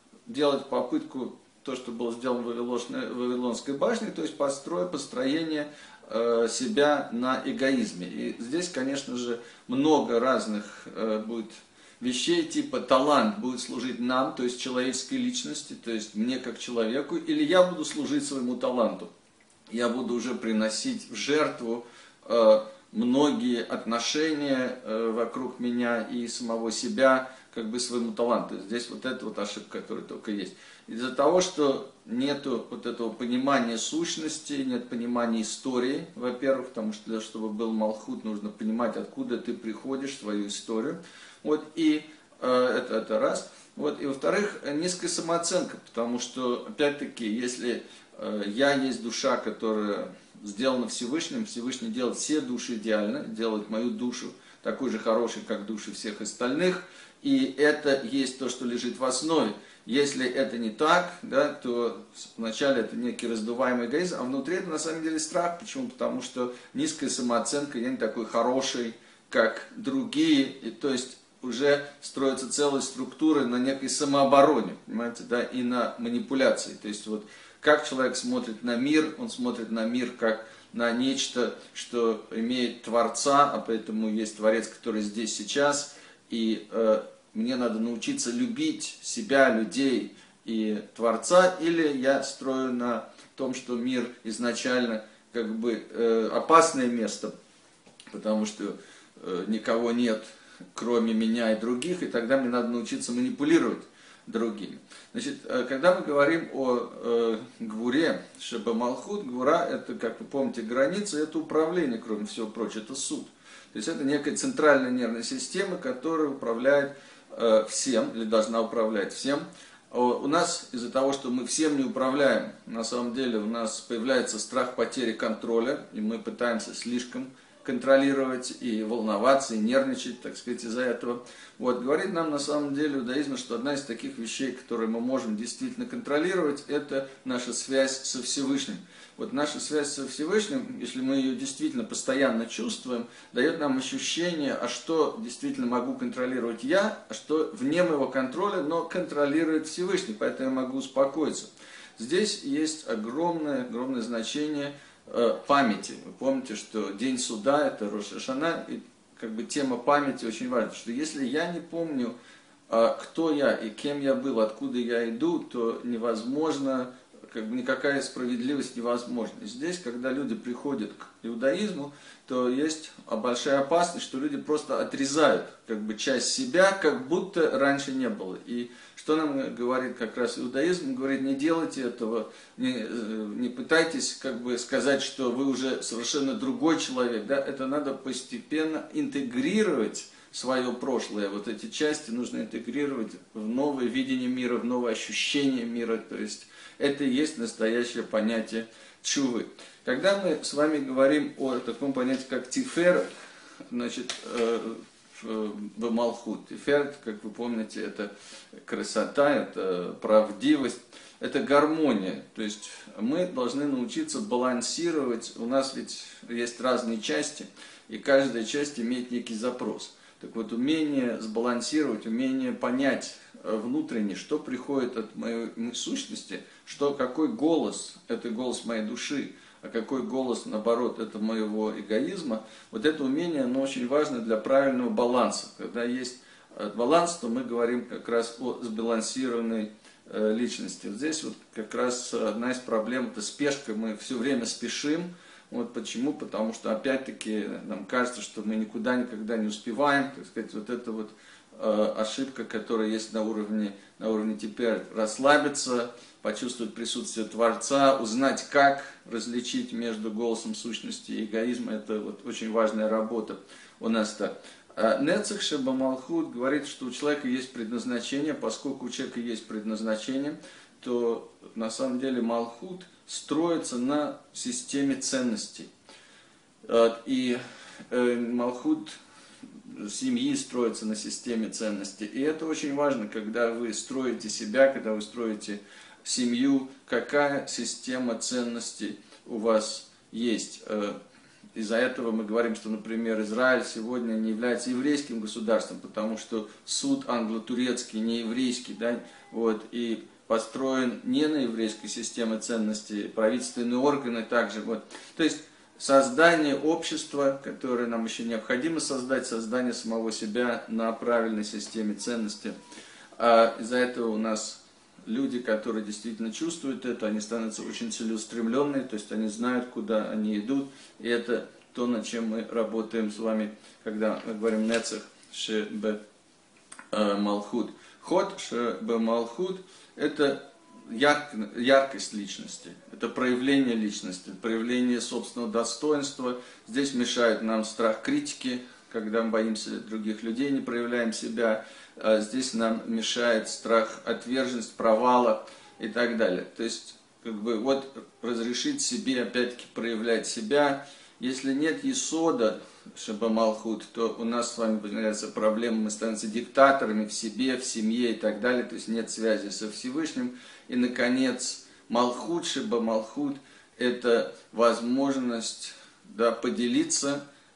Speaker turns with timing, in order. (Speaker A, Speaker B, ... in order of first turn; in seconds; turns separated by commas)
Speaker A: 0.3-19.1, Speaker A: 19.7-97.3, Speaker A: 98.1-162.2, Speaker A: 162.7-203.1, Speaker A: 203.7-208.1, Speaker A: 208.6-275.7, Speaker A: 276.6-278.9, Speaker A: 279.6-291.0, Speaker A: 291.6-312.6, Speaker A: 313.2-326.0, Speaker A: 326.9-367.2